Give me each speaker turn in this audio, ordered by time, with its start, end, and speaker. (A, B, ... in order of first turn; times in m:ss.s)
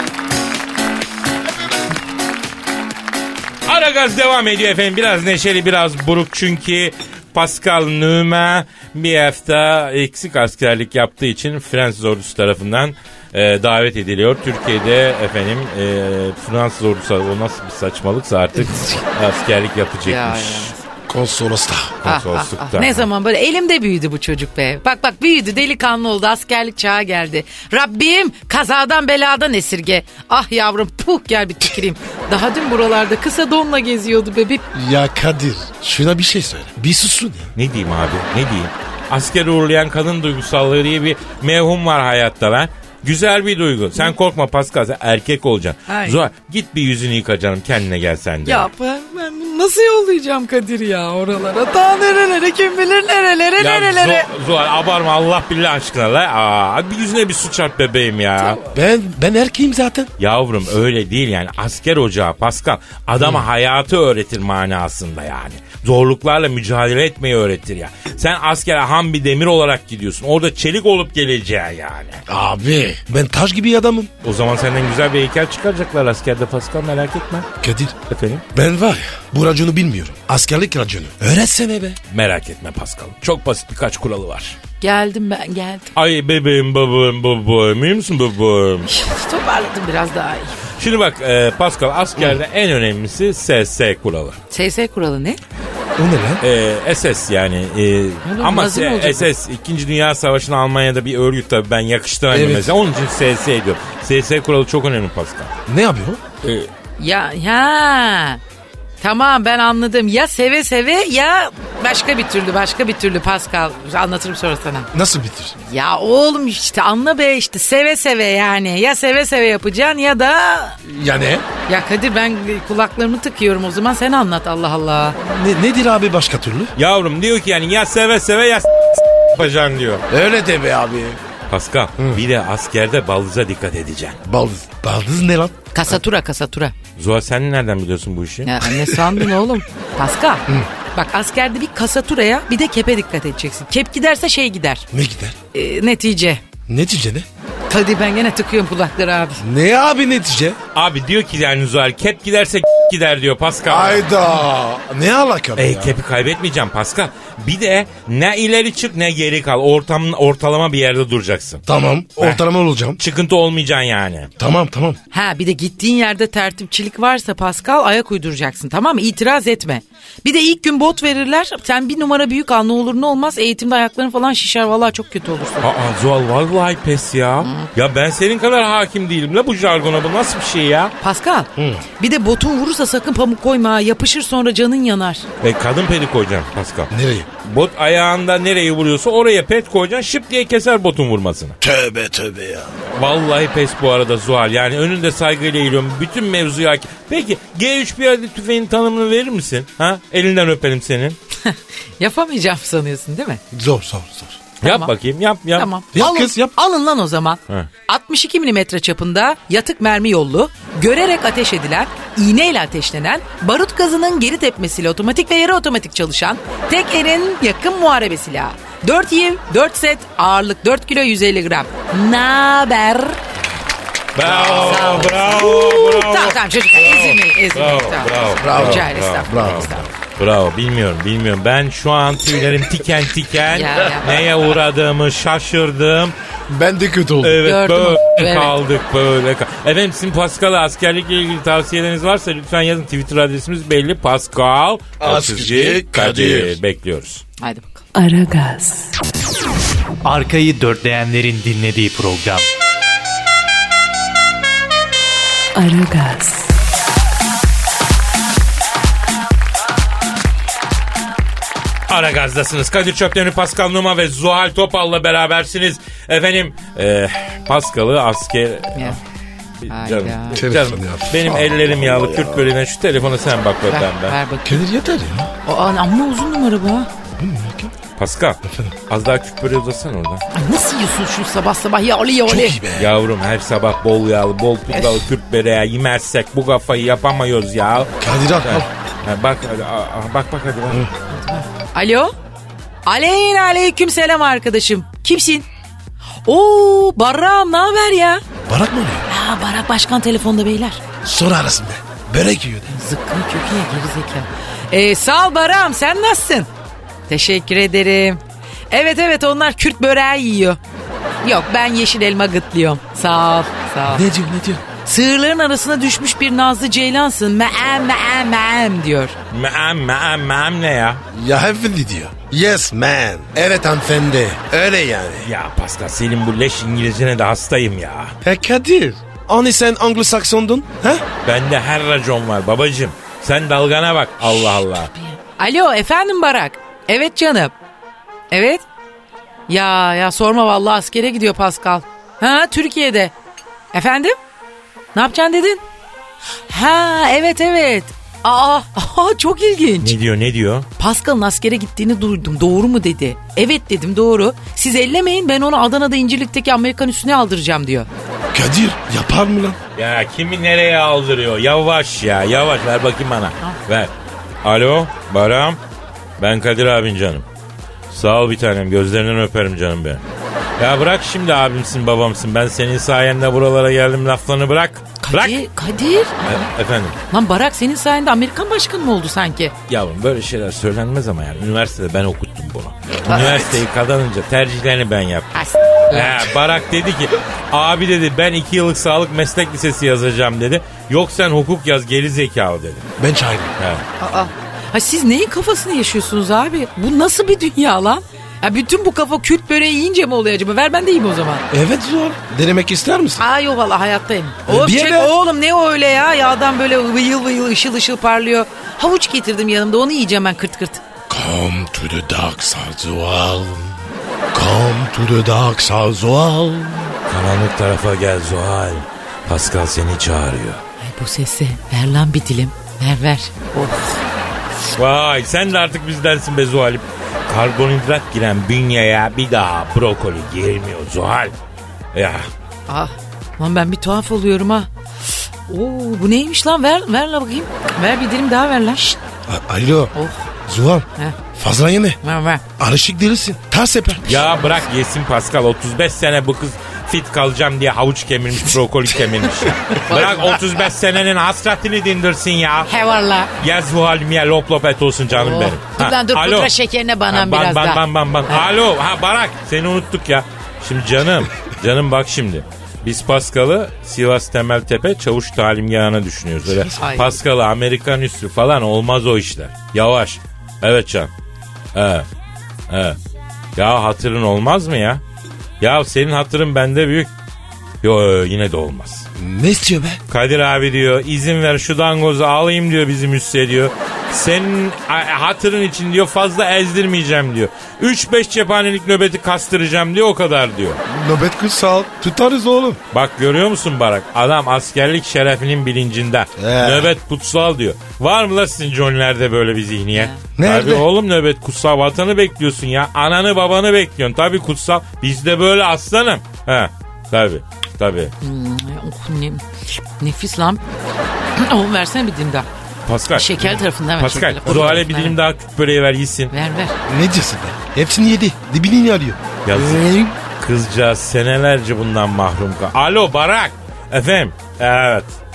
0:03.7-0:20.7 A
0:18.6-0:19.0 B
0:20.0-0:20.8 B
0:21.1-0:22.0 C
0:22.0-0:23.1 A
0:22.0-0:34.6 B
0:34.7-0:37.5 C
0:37.6-0:48.7 A
0:45.9-0:46.2 B
0:48.4-0:54.3 B
0:53.6-0:58.6 A
0:58.7-1:00.1 C
1:00.2-1:12.2 A
1:03.2-1:03.4 C
1:12.3-1:14.1 C
1:14.2-1:17.5 A
1:17.6-1:18.0 C
1:18.1-1:18.4 A
1:18.5-1:22.0 C
1:22.1-1:24.6 A
1:24.8-1:25.9 B
1:25.9-1:28.9 A
1:28.9-1:30.6 B
1:30.8-1:34.4 A
1:34.5-1:35.4 B
1:36.0-1:36.4 C
1:36.4-1:45.5 A
1:38.2-1:39.3 B
1:42.3-1:42.7 C
1:45.7-1:46.2 C
1:46.4-1:46.7 A
1:47.0-1:48.4 B
1:49.0-1:54.9 B
1:54.9-1:55.6 C
1:55.6-2:00.8 B
2:00.8-2:01.4 C
2:01.7-2:05.2 B
2:05.2-2:06.7 C
2:06.8-2:10.0 A
2:10.1-2:11.2 C
2:11.5-2:14.2 A
2:14.2-2:15.7 C
2:15.7-2:16.7 B
2:17.0-2:18.6 A
2:18.4-2:24.8 B
2:18.8-2:19.2 C
2:24.9-2:25.4 C
2:25.5-2:26.4 B
2:26.7-2:27.3 C
2:27.7-2:29.4 B
2:29.4-2:30.6 C
2:30.7-2:34.1 A
2:33.7-2:35.9 C
2:35.6-2:41.6 A
2:41.6-2:43.0 C
2:42.2-2:42.4 A
2:43.0-2:44.3 A
2:44.4-2:45.0 C
2:45.1-2:55.7 B
2:55.6-3:00.9 A
2:57.4-2:57.7 B
3:01.0-3:05.2 B
3:01.6-3:01.8 C
3:05.4-3:06.9 A
3:06.9-3:07.3 C
3:07.4-3:11.6 A
3:11.6-3:12.8 C
3:12.8-3:21.2 A
3:21.4-3:23.4 B
3:23.5-3:24.4 C
3:24.6-3:25.7 A
3:24.6-3:24.9 B
3:25.5-3:43.2 B
3:25.9-3:26.5 C
3:44.1-3:56.2 A
3:44.2-3:45.2 C
3:44.3-3:49.9 B
3:48.4-3:49.9 C
3:53.5-3:54.2 B
3:56.5-3:57.5 C
3:57.2-4:07.2 A
3:57.4-3:58.5 B
4:05.0-4:06.6 C
4:07.4-4:07.8 B
4:07.9-4:08.9 D
4:10.0-4:12.5 E
4:15.5-4:16.5 D
4:21.9-4:29.0 A
4:29.6-4:34.2 A
4:29.7-4:30.4 B
4:30.3-4:32.5 C
4:33.7-4:34.6 B
4:34.4-4:35.3 C
4:35.4-4:36.9 B
4:37.1-4:37.7 C
4:38.0-4:40.2 A
4:38.4-4:38.7 C
4:40.3-4:42.6 B
4:42.2-4:42.9 C
4:42.7-4:50.9 A
4:48.0-4:48.7 C
4:51.1-4:52.1 B
4:52.8-4:55.5 B
4:56.2-4:58.2 B
4:58.4-4:59.1 C
4:59.1-5:00.8 B
5:01.0-5:02.8 C
5:02.7-5:06.5 B
5:07.1-5:10.6 B
5:11.2-5:14.1 B
5:13.9-5:14.6 C
5:14.8-5:19.1 B
5:19.3-5:21.0 A
5:21.1-5:25.3 C
5:25.2-5:28.1 A
5:28.2-5:31.0 C
5:31.2-5:34.9 A
5:35.1-5:37.5 B
5:38.3-5:38.6 B
5:39.5-5:43.1 B
5:43.7-5:44.2 B
5:44.9-5:45.6 B
5:46.5-5:49.9 B
5:49.8-5:50.7 A
5:50.8-5:57.9 B
5:58.3-5:59.6 C
5:59.8-6:03.9 A
6:04.4-6:05.6 A
6:06.2-6:07.2 A
6:07.9-6:10.0 A
6:10.6-6:15.4 A
6:15.0-6:16.5 B
6:16.2-6:17.0 A
6:17.1-6:19.5 B
6:19.7-6:25.3 A
6:22.9-6:23.6 C
6:25.3-6:26.2 B
6:25.9-6:32.9 A
6:33.0-6:33.5 C
6:33.6-6:33.8 A
6:34.0-6:41.4 B
6:41.5-6:43.2 C
6:43.2-6:50.8 B
6:44.4-6:45.1 C
6:51.1-6:57.0 C
6:57.1-7:00.6 A
7:00.8-7:04.0 B
7:04.8-7:11.3 A
7:11.9-7:12.3 A
7:12.7-7:14.7 B
7:15.5-7:18.9 B
7:18.8-7:19.9 C
7:19.9-7:20.3 B
7:20.5-7:22.0 C
7:22.0-7:22.4 B
7:22.6-7:24.4 C
7:24.1-7:32.7 A
7:29.8-7:30.4 B
7:32.7-7:33.3 B
7:33.4-7:36.5 A
7:35.1-7:38.4 B
7:37.1-7:51.1 A
7:46.4-7:46.8 C
7:46.8-7:47.1 B
7:51.7-7:52.0 A
7:52.7-7:53.0 A
7:53.6-7:55.0 A
7:55.6-7:57.1 A
7:57.8-7:59.0 A
7:59.2-8:00.0 C
8:00.1-8:10.8 A
8:10.8-8:12.8 C
8:12.9-8:28.1 A
8:16.4-8:16.9 C
8:19.9-8:20.2 B
8:20.4-8:20.8 C
8:28.2-8:29.4 B
8:30.0-8:30.6 B
8:31.4-8:32.5 B
8:32.8-8:36.3 A
8:33.1-8:35.2 B
8:34.0-8:34.8 C
8:36.3-8:36.7 B
8:36.9-8:40.0 C
8:39.4-8:45.1 A